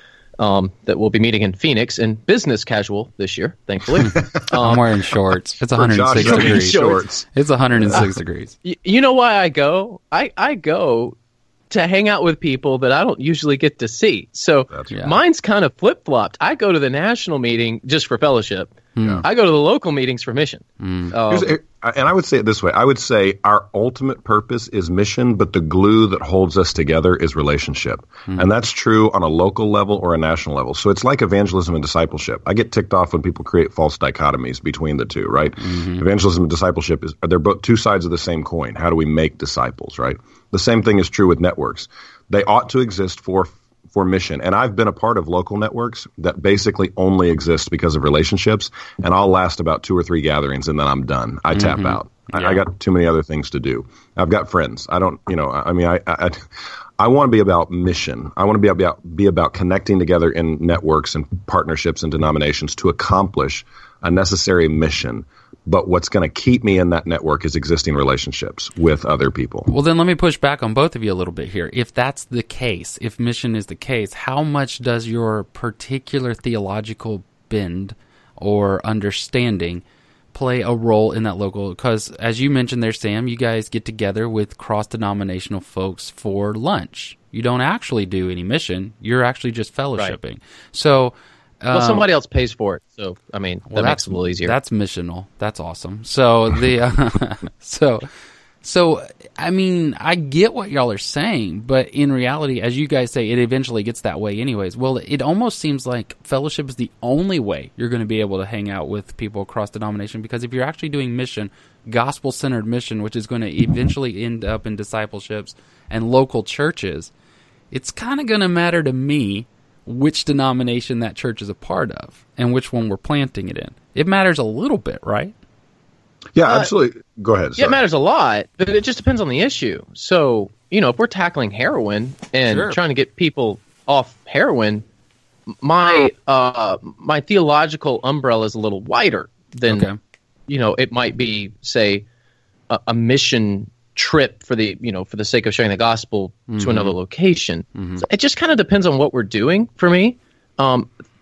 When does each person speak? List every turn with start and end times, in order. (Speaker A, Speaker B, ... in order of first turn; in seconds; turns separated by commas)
Speaker A: 0.4-4.9, Speaker B: 4.0-8.6, Speaker C: 5.8-8.1, Speaker A: 6.1-7.0, Speaker A: 8.6-11.2, Speaker A: 11.7-21.5, Speaker B: 14.9-15.2, Speaker B: 19.0-19.2, Speaker B: 20.8-21.1, Speaker C: 21.3-56.5, Speaker B: 35.6-36.0, Speaker B: 51.5-52.6, Speaker C: 57.0-69.7, Speaker B: 69.7-92.1, Speaker A: 91.7-94.5, Speaker B: 93.7-98.1, Speaker B: 98.6-117.1, Speaker B: 117.7-125.3, Speaker C: 126.3-127.8, Speaker A: 127.6-134.8, Speaker B: 132.5-132.8, Speaker A: 135.6-139.9, Speaker B: 139.7-140.0, Speaker A: 140.5-142.1, Speaker A: 142.7-150.9, Speaker B: 146.5-146.9, Speaker B: 147.8-148.0